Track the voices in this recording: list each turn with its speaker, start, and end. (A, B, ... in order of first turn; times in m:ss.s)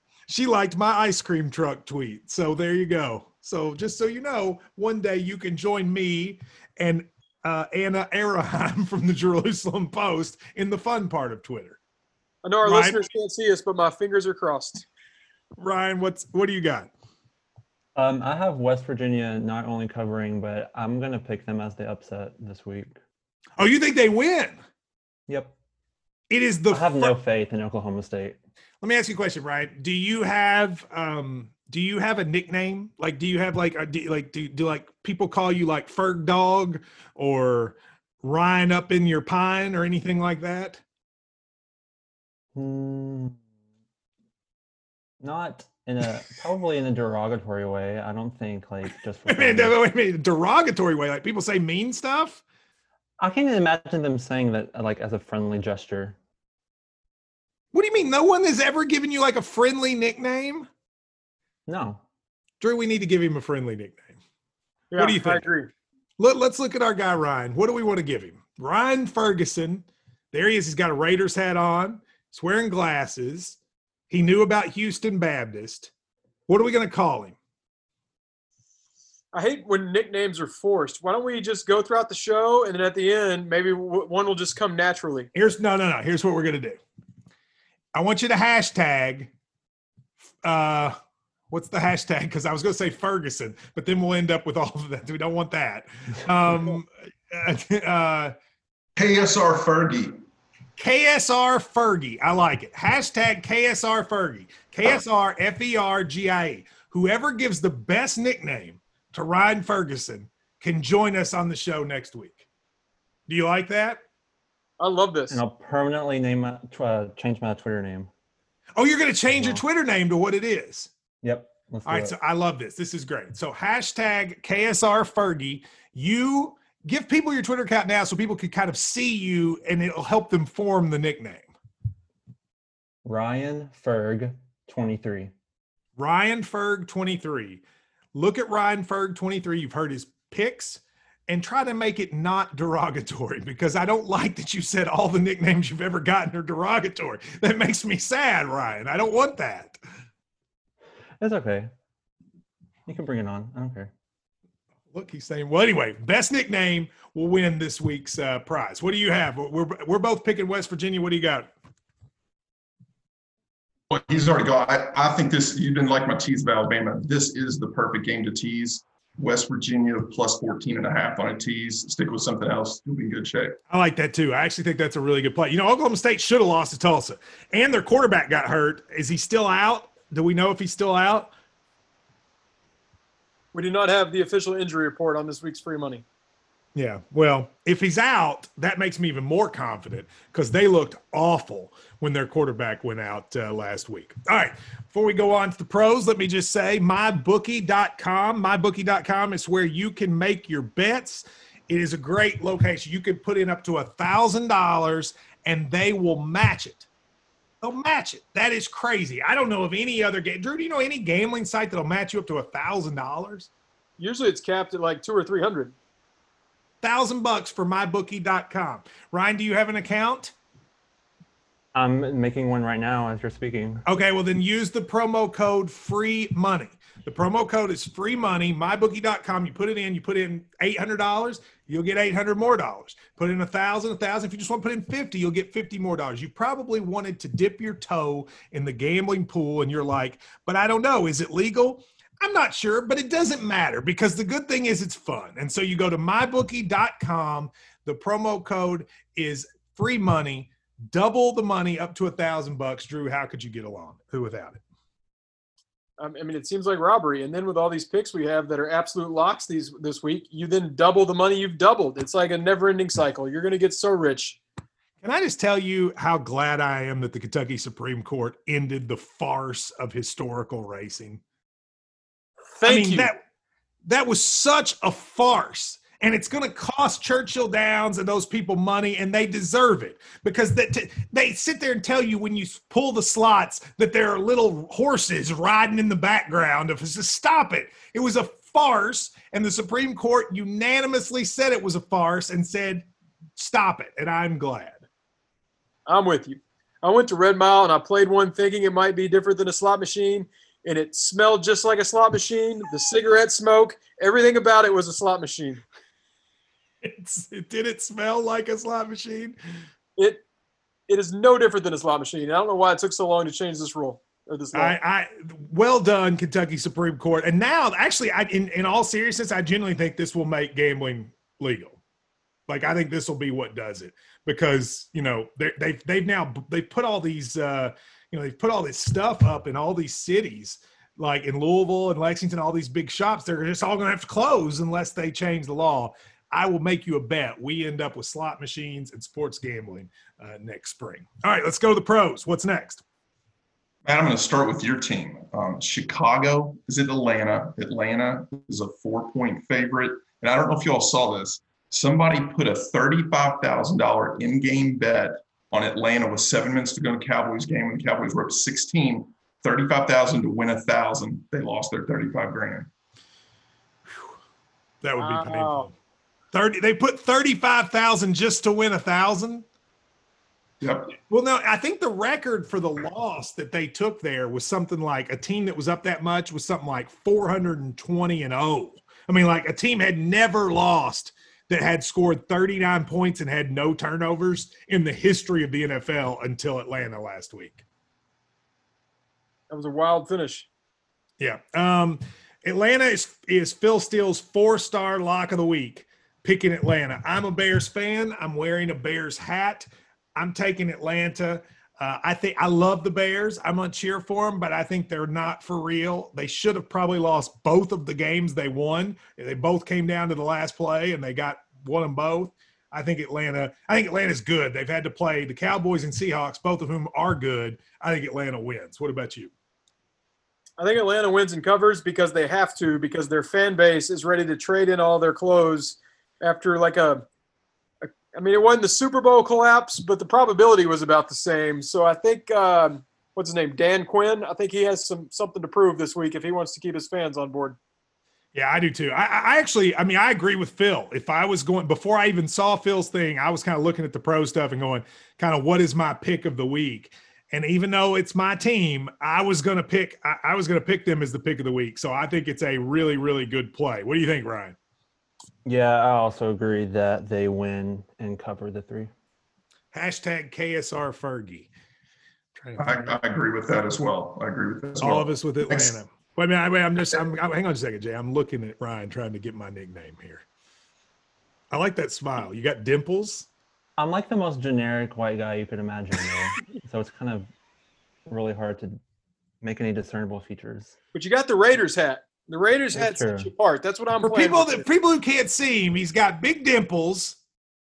0:00.3-0:11.8 A
0:12.4-0:14.8 B
0:12.6-0:13.1 A
0:15.6-0:16.9 A
0:18.0-0:23.0 C
0:23.6-0:24.6 A
0:25.3-0:25.6 C
0:26.3-0:27.2 A
0:26.7-0:28.4 C
0:28.8-0:40.8 A
0:42.6-0:43.4 C
0:45.2-0:49.8 C
0:49.3-0:52.4 A
0:53.2-0:56.2 C
0:57.7-1:00.7 A
1:01.7-1:02.0 C
1:02.6-1:04.2 A
1:04.9-1:05.7 B
1:05.0-1:05.4 A
1:06.2-1:13.6 A
1:14.1-1:15.9 A
1:16.5-1:17.4 A
1:19.3-1:25.3 B
1:25.4-1:26.8 A
1:27.9-1:29.3 A
1:30.4-1:31.0 A
1:31.5-1:38.3 A
1:39.0-1:40.2 D
1:40.8-1:52.4 A
1:53.3-1:54.0 A
1:54.8-1:55.4 B
1:55.3-1:58.1 C
1:58.8-2:00.9 A
1:59.3-1:59.6 C
2:01.2-2:02.1 C
2:01.9-2:11.5 A
2:13.0-2:15.3 C
2:16.0-2:17.6 A
2:18.1-2:29.8 A
2:31.2-2:31.7 C
2:32.9-2:33.9 C
2:34.9-2:41.5 A
2:43.9-2:53.6 D
2:53.7-3:01.3 A
3:03.5-3:06.0 B
3:06.8-3:26.9 A
3:27.6-3:33.5 A
3:34.0-3:35.8 B
3:36.8-3:40.3 A
3:41.8-3:43.8 C
3:43.9-4:14.6 A
4:16.0-4:24.4 B
4:25.0-4:31.2 A
4:32.6-4:33.1 B
4:32.6-4:33.2 A
4:33.9-4:52.9 A
4:53.4-4:54.8 A
4:55.9-5:05.6 B
5:06.8-5:09.4 A
5:10.0-5:10.2 B
5:10.9-5:14.8 B
5:14.5-5:21.8 A
5:22.5-5:42.8 A
5:43.8-6:02.7 D
6:04.8-6:05.7 A
6:05.0-6:05.7 B
6:06.3-6:09.4 A
6:10.6-6:11.0 D
6:11.1-6:27.6 A
6:29.5-6:30.5 B
6:31.2-6:59.3 A
7:00.6-7:07.0 B
7:07.8-7:17.6 B
7:18.3-7:34.6 A
7:35.4-7:38.9 C
7:39.7-7:41.5 A
7:42.4-7:42.9 A
7:42.6-7:45.8 D
7:44.8-7:50.2 A
7:51.5-7:53.3 A
7:53.8-7:57.3 C
7:58.1-7:58.8 C
7:59.4-8:00.8 C
8:01.0-8:04.7 B
8:02.7-8:03.3 C
8:04.0-8:07.2 A